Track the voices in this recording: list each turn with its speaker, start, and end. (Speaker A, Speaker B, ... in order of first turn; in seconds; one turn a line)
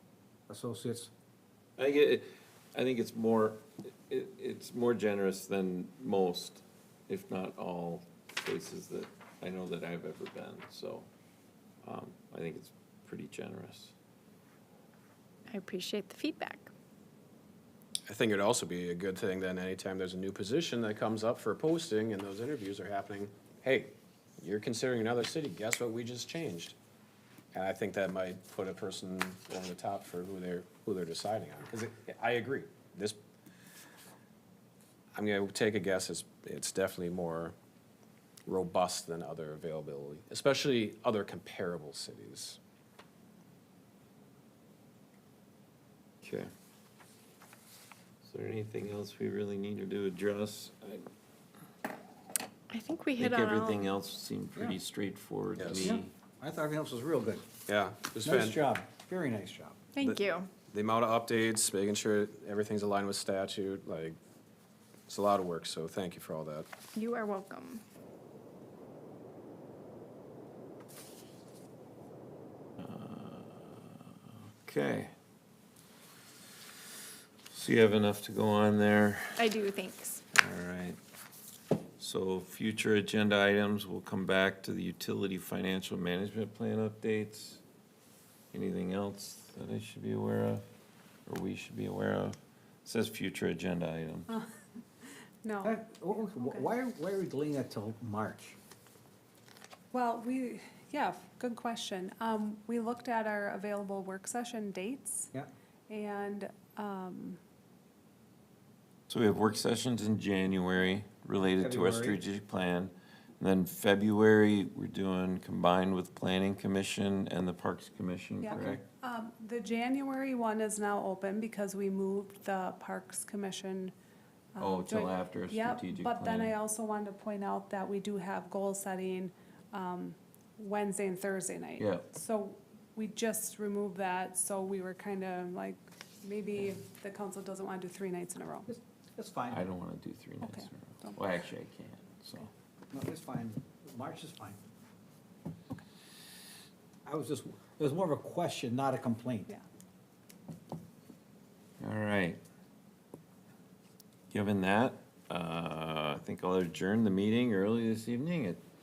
Speaker A: 0.5-1.1
Speaker B: 1.8-11.1
Speaker B: 11.8-13.9
Speaker C: 15.5-16.7
Speaker D: 18.1-26.8
Speaker D: 27.5-33.2
Speaker D: 35.1-37.5
Speaker D: 38.5-42.6
Speaker B: 46.2-46.5
Speaker B: 48.2-51.1
Speaker C: 52.7-53.9
Speaker B: 53.2-56.1
Speaker D: 55.6-56.0
Speaker A: 55.8-57.5
Speaker D: 57.7-58.6
Speaker A: 58.2-59.8
Speaker C: 60.0-60.5
Speaker D: 60.0-64.2
Speaker D: 65.1-66.7
Speaker C: 66.9-67.8
Speaker B: 72.8-75.1
Speaker B: 77.5-79.5
Speaker C: 79.4-80.2
Speaker B: 80.3-81.0
Speaker B: 82.0-87.6
Speaker B: 88.5-90.6
Speaker B: 91.3-94.3
Speaker E: 95.4-96.7
Speaker A: 95.6-98.6
Speaker E: 99.9-105.3
Speaker E: 105.9-107.4
Speaker B: 109.1-118.8
Speaker A: 111.5-112.2
Speaker E: 118.4-123.9
Speaker E: 124.6-138.7
Speaker B: 124.6-126.6
Speaker B: 131.8-132.1
Speaker A: 138.7-139.6
Speaker B: 139.5-142.5
Speaker E: 140.4-141.3
Speaker A: 142.9-144.6
Speaker A: 147.1-149.5
Speaker B: 151.8-152.4
Speaker B: 154.3-158.6